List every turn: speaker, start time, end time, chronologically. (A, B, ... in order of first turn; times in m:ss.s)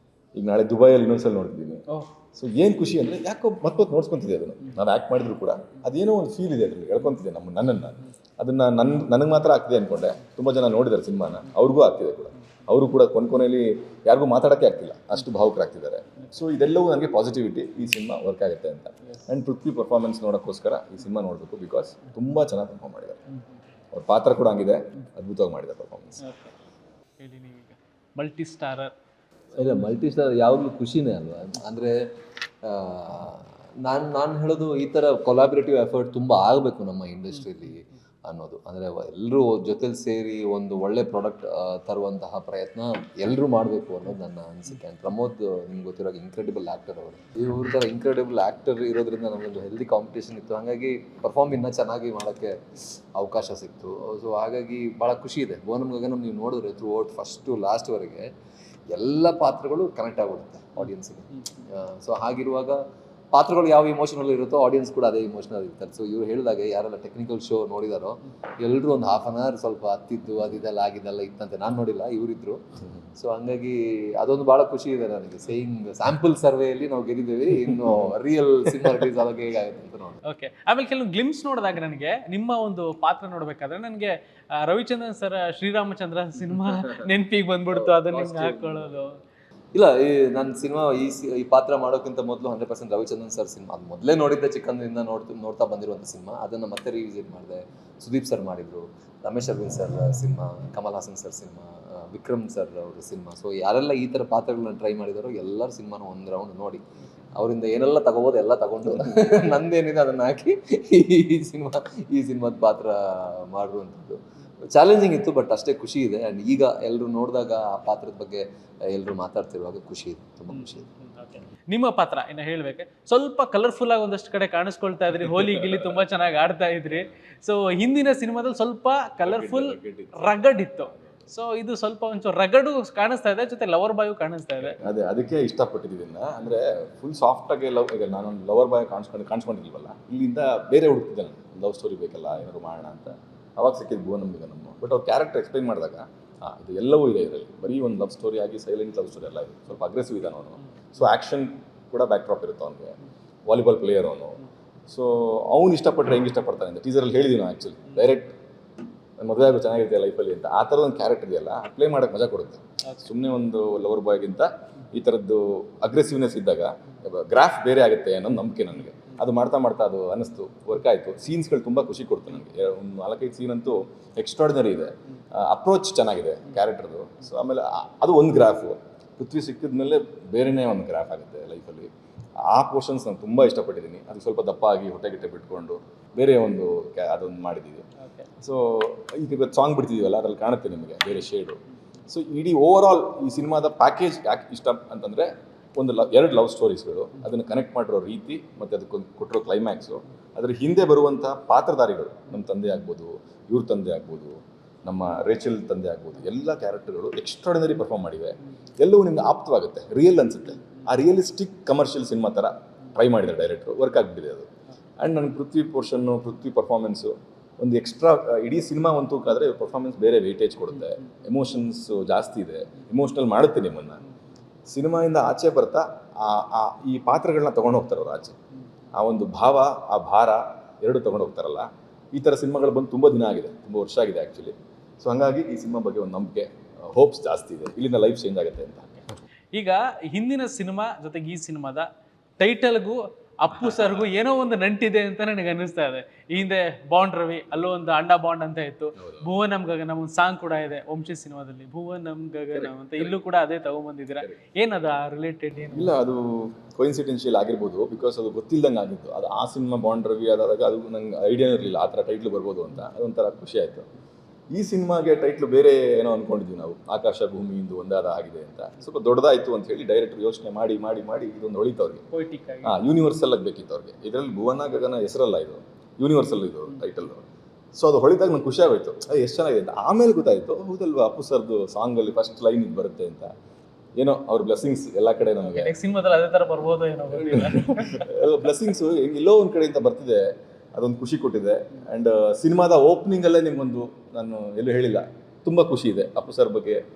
0:00.3-0:23.2 A
0:23.9-0:26.2 A
0:26.2-0:26.5 B
0:27.2-0:28.9 B
0:29.6-0:32.0 C
0:32.6-0:58.3 C
0:37.4-0:37.7 B
0:58.9-1:02.8 C
1:00.8-1:01.6 B
1:03.3-1:12.6 C
1:13.2-1:20.2 C
1:20.2-1:29.1 B
1:27.7-1:28.9 C
1:29.7-1:46.8 C
1:47.3-2:00.9 C
2:00.5-2:14.8 B
2:05.4-2:05.9 A
2:09.2-2:11.3 A
2:14.7-2:38.4 A
2:39.2-3:01.9 A
3:02.4-3:07.8 A
3:08.0-3:08.3 B
3:08.4-3:44.0 A
3:44.7-3:48.4 A
3:48.9-3:59.0 A
3:59.5-4:01.9 B
4:02.4-4:15.9 B
4:03.5-4:04.0 A
4:09.0-4:09.3 A
4:12.5-4:13.2 A
4:15.7-4:23.9 A
4:24.5-4:32.0 A
4:32.1-4:32.8 B
4:32.6-4:43.3 A
4:44.0-4:45.7 A
4:45.4-4:48.1 B
4:47.3-4:50.2 A
4:50.7-4:56.8 A